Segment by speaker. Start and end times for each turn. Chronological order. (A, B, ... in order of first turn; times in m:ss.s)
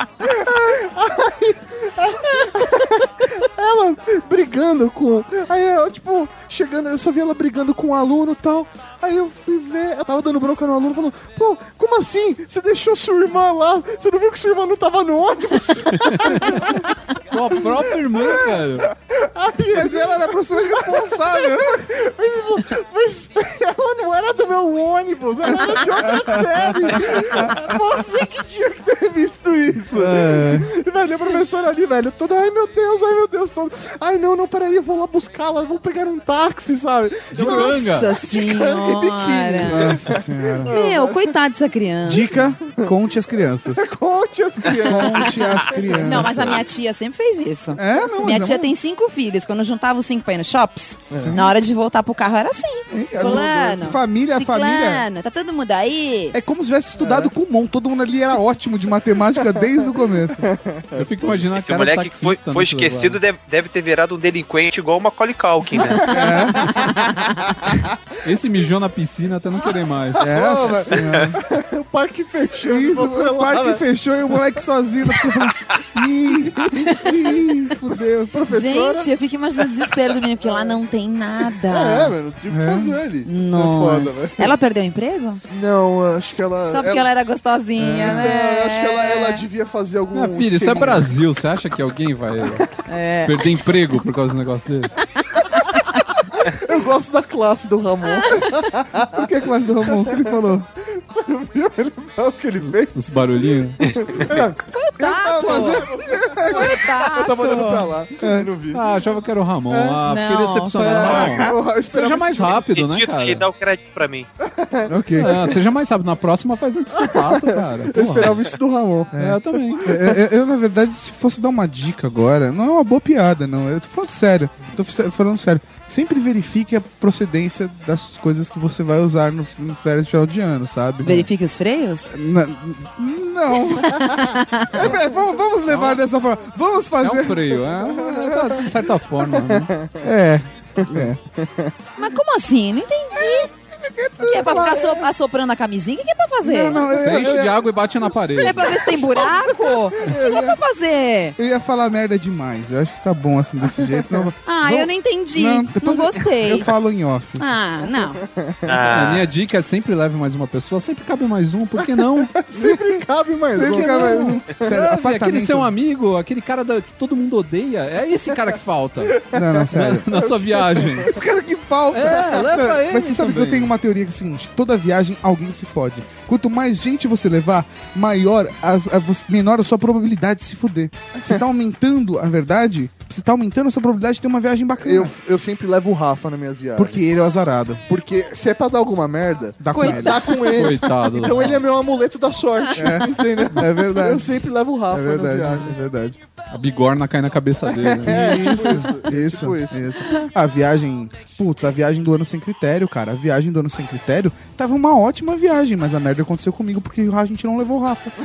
0:00.2-0:16.8 A
0:16.2-0:16.6 B
0:17.3-0:18.9 B
0:17.5-0:41.3 A
0:19.7-0:21.8 C
0:26.1-0:27.5 C
0:30.0-0:30.7 C
0:37.4-0:40.0 D
0:37.4-0:38.1 B
0:39.6-0:40.8 C
0:40.7-0:42.3 D
0:42.0-0:43.8 C
0:43.7-0:46.6 A
0:44.8-0:46.6 C
0:46.0-0:56.4 D
0:47.8-0:48.7 C
0:51.1-0:51.4 A
0:51.1-0:51.5 C
0:52.9-0:55.0 C
0:53.2-0:53.5 A
0:56.3-1:00.5 C
0:57.0-0:57.3 A
1:00.4-1:01.4 A
1:00.9-1:03.2 B
1:01.5-1:06.4 E
1:05.8-1:07.0 A
1:06.1-1:06.8 C
1:08.2-1:10.2 B
1:10.2-1:13.8 A
1:10.2-1:11.4 C
1:12.6-1:18.4 C
1:18.3-1:19.1 A
1:18.5-1:22.1 D
1:20.4-1:20.7 A
1:21.7-1:24.5 A
1:22.5-1:23.0 C
1:23.2-1:25.4 D
1:25.5-1:27.1 A
1:26.7-1:29.4 D
1:27.8-1:28.3 C
1:27.8-1:31.1 A
1:30.1-1:32.7 B
1:32.9-1:33.4 D
1:33.2-1:34.9 B
1:36.3-1:39.3 A
1:39.0-1:40.6 C
1:39.8-1:40.4 A
1:40.9-1:49.2 A
1:42.9-1:43.8 B
1:44.7-1:45.9 D
1:45.3-1:46.1 C
1:46.5-1:47.9 D
1:48.2-1:48.5 C
1:48.7-1:53.4 B
1:49.7-1:50.0 A
1:50.0-1:51.2 D
1:50.8-1:52.6 A
1:51.1-1:51.5 C
1:52.7-1:54.3 E
1:54.5-1:55.6 A
1:54.9-1:55.3 C
1:55.2-1:58.4 B
1:56.9-1:59.2 A
1:59.1-2:11.3 C
1:59.1-2:00.0 B
1:59.8-2:00.2 A
2:11.0-2:12.1 D
2:12.1-2:14.2 C
2:13.8-2:14.9 D
2:14.7-2:18.3 C
2:15.7-2:16.0 B
2:17.0-2:19.7 B
2:18.1-2:18.4 A
2:19.5-2:20.0 A
2:20.0-2:21.2 C
2:20.8-2:21.7 A
2:22.0-2:23.5 D
2:23.1-2:25.1 C
2:24.2-2:26.9 D
2:26.4-2:27.9 C
2:26.9-2:28.8 B
2:28.4-2:31.4 D
2:28.7-2:30.1 A
2:30.0-2:30.6 C
2:31.4-2:37.4 C
2:33.8-2:34.3 A
2:34.4-2:36.7 D
2:37.4-2:38.2 D
2:38.2-2:38.7 A
2:38.7-2:39.3 E
2:38.8-2:42.4 B
2:41.8-2:44.6 A
2:42.5-2:42.9 C
2:43.5-2:45.7 C
2:44.7-2:49.2 B
2:49.2-2:49.5 A
2:49.3-2:50.1 C
2:49.7-2:51.1 B
2:51.0-3:05.2 C
2:51.9-2:53.7 B
3:04.8-3:07.0 A
3:06.8-3:07.8 C
3:07.9-3:15.8 A
3:09.6-3:10.4 C
3:09.7-3:10.5 D
3:10.5-3:11.6 B
3:12.7-3:14.3 C
3:14.9-3:16.2 C
3:16.5-3:18.9 B
3:17.7-3:19.8 A
3:18.0-3:28.1 C